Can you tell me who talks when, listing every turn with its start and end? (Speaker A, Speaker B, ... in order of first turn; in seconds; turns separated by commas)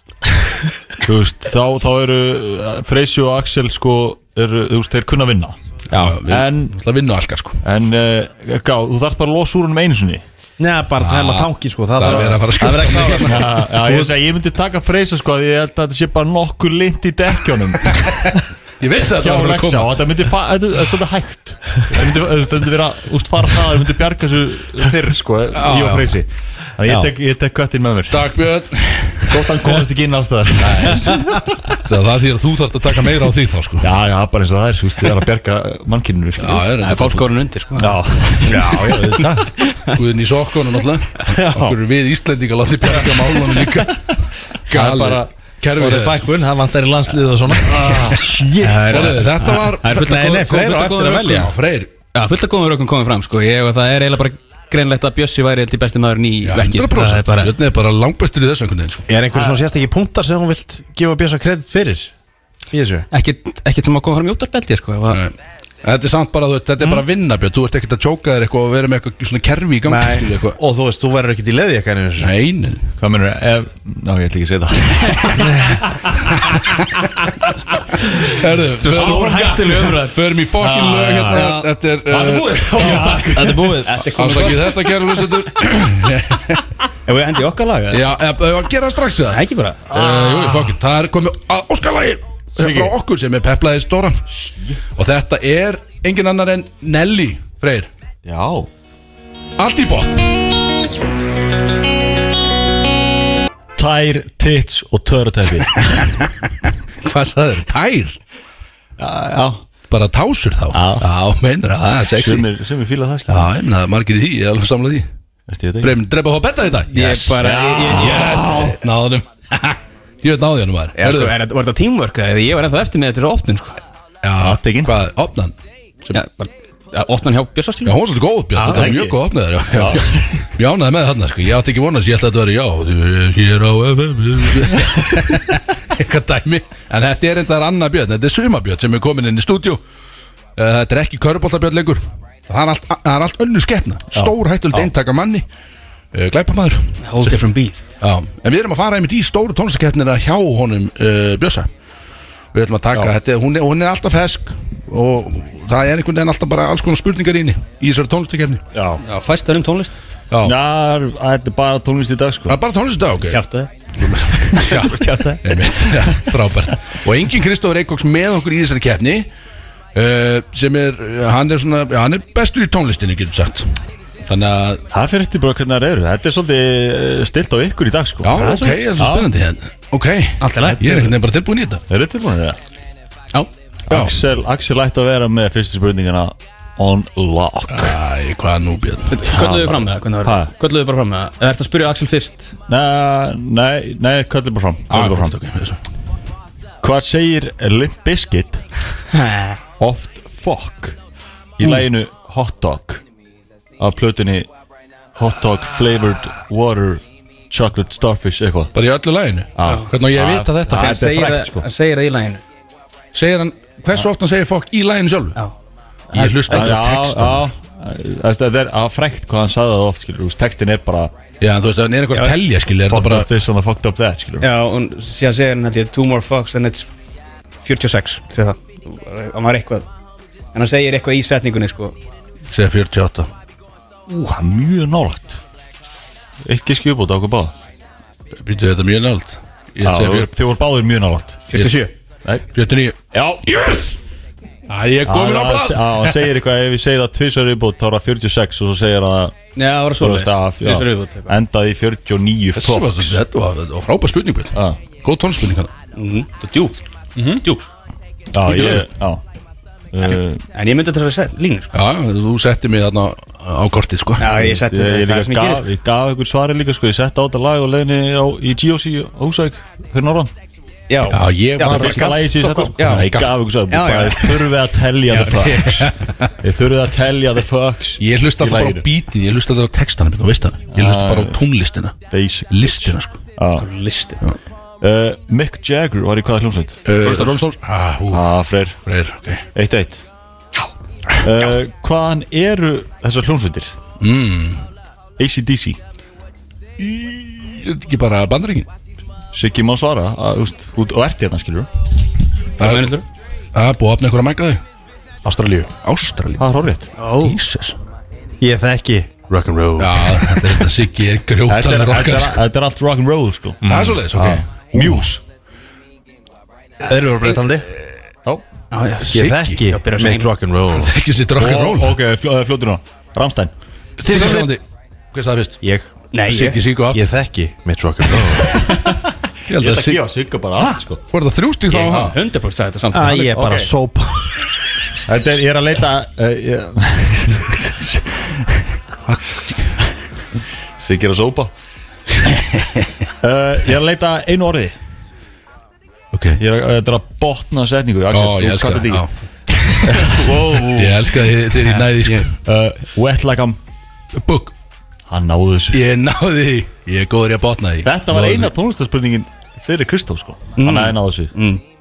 Speaker A: 1.0-5.5, Speaker B: 5.9-7.6, Speaker A: 6.1-6.8, Speaker A: 7.6-10.2, Speaker C: 10.6-14.1, Speaker B: 11.0-13.5, Speaker A: 12.0-12.4, Speaker A: 13.1-18.4, Speaker B: 18.8-20.0, Speaker A: 19.2-28.3, Speaker B: 25.5-26.1, Speaker B: 28.1-29.4, Speaker A: 29.3-31.4, Speaker B: 30.6-31.1, Speaker B: 31.8-33.9, Speaker A: 33.8-36.8, Speaker B: 36.4-37.2, Speaker D: 36.8-37.9, Speaker A: 37.7-39.4, Speaker C: 38.5-39.3, Speaker D: 38.6-39.0, Speaker B: 39.9-44.1, Speaker B: 44.7-46.3, Speaker C: 44.7-48.1, Speaker A: 47.6-49.2, Speaker D: 48.6-51.5, Speaker B: 48.9-50.1, Speaker C: 49.9-51.5, Speaker B: 51.2-51.9, Speaker D: 52.1-57.5, Speaker B: 56.4-59.0, Speaker C: 59.1-62.1, Speaker A: 59.3-59.6, Speaker C: 62.7-63.1, Speaker D: 63.1-65.2, Speaker B: 65.1-70.6, Speaker C: 69.9-72.3, Speaker B: 72.2-72.9, Speaker A: 73.0-75.8, Speaker C: 75.4-75.8, Speaker B: 76.5-76.8, Speaker B: 78.3-83.3, Speaker D: 78.8-80.1, Speaker A: 79.0-79.7, Speaker C: 79.1-79.9, Speaker A: 80.6-81.4, Speaker D: 81.2-81.7, Speaker A: 82.1-83.8, Speaker D: 82.5-83.2, Speaker C: 82.9-84.0, Speaker D: 83.8-84.7, Speaker B: 84.0-86.6, Speaker D: 87.1-88.0, Speaker B: 87.9-94.2, Speaker D: 89.3-89.8, Speaker A: 89.9-90.7, Speaker A: 92.6-92.9, Speaker A: 94.4-94.8, Speaker B: 95.0-97.9, Speaker A: 98.2-98.7, Speaker B: 99.6-100.3, Speaker A: 103.8-105.8, Speaker B: 107.0-108.2, Speaker A: 109.0-109.6, Speaker B: 109.9-112.5, Speaker A: 110.7-111.0, Speaker A: 112.1-113.5, Speaker B: 113.3-115.1, Speaker A: 115.5-116.0, Speaker B: 115.8-121.3, Speaker D: 116.9-118.7, Speaker A: 117.4-118.7, Speaker D: 121.0-123.8, Speaker B: 124.2-125.5, Speaker A: 124.4-124.9, Speaker D: 126.1-128.0, Speaker B: 127.8-139.8, Speaker D: 128.6-128.8, Speaker A: 128.6-129.2, Speaker A: 129.7-130.2, Speaker B: 140.6-145.4, Speaker A: 144.1-144.9, Speaker B: 146.1-147.4, Speaker D: 147.0-147.9, Speaker B: 148.0-151.7, Speaker B: 152.5-158.6, Speaker A: 158.7-159.0, Speaker D: 159.0-160.0, Speaker A: 160.4-162.6, Speaker B: 162.5-163.4, Speaker D: 163.3-163.7, Speaker B: 164.0-169.3, Speaker D: 164.7-165.4, Speaker B: 169.9-174.8, Speaker A: 174.9-179.3, Speaker B: 178.2-181.8, Speaker D: 178.4-178.8, Speaker D: 180.4-181.0, Speaker A: 181.9-182.6, Speaker A: 183.9-188.0, Speaker B: 183.9-184.1, Speaker B: 187.7-189.2, Speaker D: 189.1-192.5, Speaker A: 189.2-190.5, Speaker A: 192.7-195.4, Speaker B: 194.9-195.8, Speaker A: 196.8-198.6, Speaker A: 199.8-201.0, Speaker A: 201.6-203.0, Speaker A: 203.8-204.5, Speaker A: 205.1-208.7, Speaker B: 208.7-210.9, Speaker A: 209.6-211.7, Speaker D: 210.7-212.4, Speaker B: 213.1-215.4, Speaker D: 216.1-216.8, Speaker B: 216.1-217.4, Speaker A: 216.4-221.1, Speaker B: 221.4-223.3, Speaker A: 222.9-224.5, Speaker D: 224.4-226.9, Speaker D: 227.6-229.9, Speaker D: 230.5-232.0, Speaker B: 232.5-233.3, Speaker A: 234.1-235.4, Speaker A: 236.4-237.5, Speaker B: 238.4-240.3, Speaker A: 239.8-242.4, Speaker D: 241.5-241.9, Speaker B: 242.5-243.9, Speaker A: 243.1-243.6, Speaker B: 244.7-246.1, Speaker A: 245.1-249.3, Speaker D: 249.6-251.3, Speaker A: 250.0-253.2, Speaker B: 252.6-255.7, Speaker A: 254.5-254.8, Speaker D: 255.9-257.7, Speaker A: 258.3-259.2, Speaker B: 258.4-258.8, Speaker A: 259.9-260.4, Speaker D: 260.5-261.7, Speaker B: 261.7-264.2, Speaker D: 264.2-265.6, Speaker A: 264.2-270.3, Speaker D: 270.9-273.1, Speaker B: 271.1-273.3, Speaker A: 271.6-278.9, Speaker D: 273.7-274.5, Speaker D: 275.1-275.4, Speaker B: 275.4-276.3, Speaker B: 278.0-281.9, Speaker A: 280.7-281.4, Speaker A: 282.1-283.7, Speaker B: 282.5-283.2, Speaker D: 283.5-284.2, Speaker A: 284.8-287.3, Speaker B: 286.8-288.3, Speaker A: 288.1-288.8, Speaker B: 288.8-289.4, Speaker A: 289.5-290.0, Speaker A: 291.2-293.7, Speaker B: 294.0-294.6, Speaker A: 295.2-295.8, Speaker B: 296.8-298.7, Speaker A: 299.3-301.7, Speaker B: 302.6-302.9, Speaker D: 302.6-303.0, Speaker B: 303.5-304.6, Speaker C: 305.2-305.7, Speaker B: 305.8-306.4, Speaker A: 306.4-306.9, Speaker D: 307.0-307.3, Speaker B: 307.1-307.8, Speaker C: 308.4-310.6, Speaker B: 309.8-312.4, Speaker A: 311.5-315.2, Speaker B: 313.6-315.1, Speaker C: 313.6-313.9, Speaker C: 316.8-317.6, Speaker D: 318.7-320.3, Speaker B: 319.0-319.7, Speaker C: 319.1-320.9, Speaker B: 320.7-322.0, Speaker A: 321.4-323.5, Speaker C: 324.0-324.5, Speaker B: 324.0-325.6, Speaker C: 325.6-326.0, Speaker D: 326.1-326.6, Speaker B: 326.2-327.0, Speaker C: 326.9-328.6, Speaker A: 328.6-329.0, Speaker B: 329.5-330.0, Speaker A: 329.5-331.0, Speaker B: 331.1-332.1, Speaker D: 331.7-333.3, Speaker C: 332.9-334.3, Speaker A: 333.2-333.7, Speaker A: 335.1-338.6, Speaker B: 339.1-339.8, Speaker A: 340.8-341.5, Speaker B: 342.3-342.9, Speaker A: 343.2-344.7, Speaker B: 346.1-346.4, Speaker A: 346.4-349.0, Speaker B: 348.1-349.1, Speaker B: 349.7-350.1, Speaker A: 349.8-351.1, Speaker B: 350.7-352.3, Speaker A: 352.4-353.6, Speaker B: 354.1-354.5, Speaker A: 355.1-355.8, Speaker B: 355.7-358.5, Speaker A: 357.8-361.3, Speaker D: 360.6-361.6